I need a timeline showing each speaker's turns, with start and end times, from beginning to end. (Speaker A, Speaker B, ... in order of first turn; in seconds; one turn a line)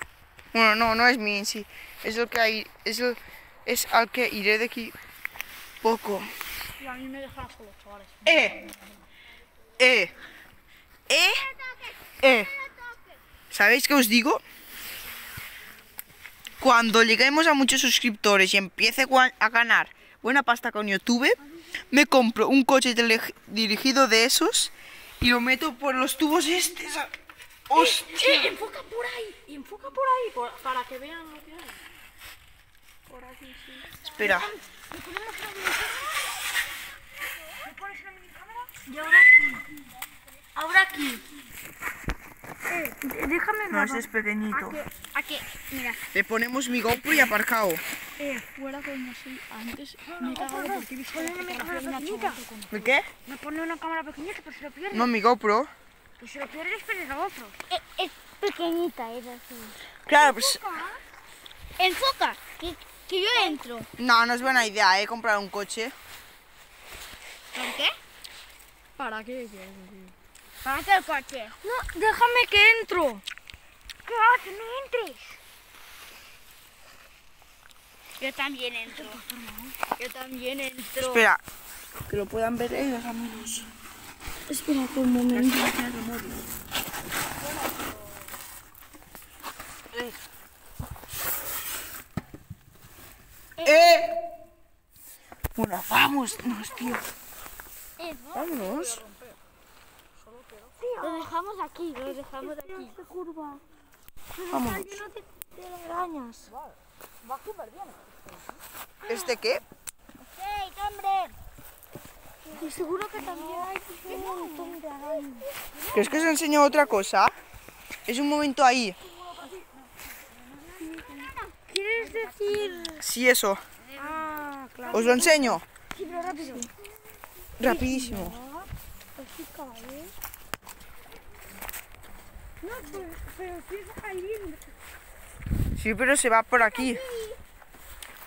Speaker A: 0.5-4.9
Speaker A: 5.8-6.3
Speaker B: 6.8-8.6
Speaker A: 8.2-8.6
Speaker A: 9.8-10.1
Speaker A: 11.1-11.4
Speaker C: 11.2-13.2
Speaker A: 12.2-12.5
Speaker A: 13.5-14.4
Speaker A: 16.6-21.4
Speaker A: 21.9-27.1
Speaker A: 27.7-28.6
Speaker B: 27.7-31.8
Speaker B: 33.1-36.2
Speaker A: 34.1-34.5
Speaker B: 37.6-39.6
Speaker B: 40.5-41.2
Speaker B: 42.7-44.8
Speaker A: 43.7-44.8
Speaker C: 45.1-46.0
Speaker A: 46.1-47.8
Speaker B: 48.2-55.1
Speaker C: 50.2-52.4
Speaker A: 52.7-53.1
Speaker A: 54.9-55.7
Speaker B: 56.2-57.5
Speaker C: 57.7-59.8
Speaker A: 60.0-60.8
Speaker B: 60.1-61.0
Speaker C: 61.8-63.9
Speaker A: 64.0-65.9
Speaker C: 67.5-67.9
Speaker B: 69.0-70.1
Speaker C: 70.6-71.5
Speaker B: 71.6-73.2
Speaker B: 74.0-75.3
Speaker C: 78.2-79.2
Speaker B: 78.9-79.8
Speaker C: 80.0-81.2
Speaker A: 81.1-81.4
Speaker A: 82.1-83.7
Speaker B: 84.5-85.7
Speaker A: 85.3-86.5
Speaker C: 93.6-94.0
Speaker A: 93.6-94.1
Speaker A: 95.5-97.0
Speaker C: 98.0-98.5
Speaker B: 98.3-99.4
Speaker A: 98.3-99.0
Speaker B: 100.6-101.3
Speaker C: 101.0-103.0
Speaker B: 102.0-103.6
Speaker B: 104.4-108.1
Speaker A: 104.5-105.0
Speaker A: 109.0-109.6
Speaker B: 109.1-109.4
Speaker C: 110.2-111.3
Speaker B: 112.5-116.3
Speaker C: 112.6-115.4
Speaker A: 115.9-117.3
Speaker A: 118.0-119.0
Speaker B: 119.3-119.6
Speaker B: 120.8-123.0
Speaker C: 120.8-122.8
Speaker A: 123.0-123.6
Speaker B: 123.9-126.7
Speaker A: 124.9-125.6
Speaker A: 127.6-128.3
Speaker B: 127.6-130.1
Speaker B: 132.6-134.7
Speaker A: 135.8-137.0
Speaker C: 136.6-137.4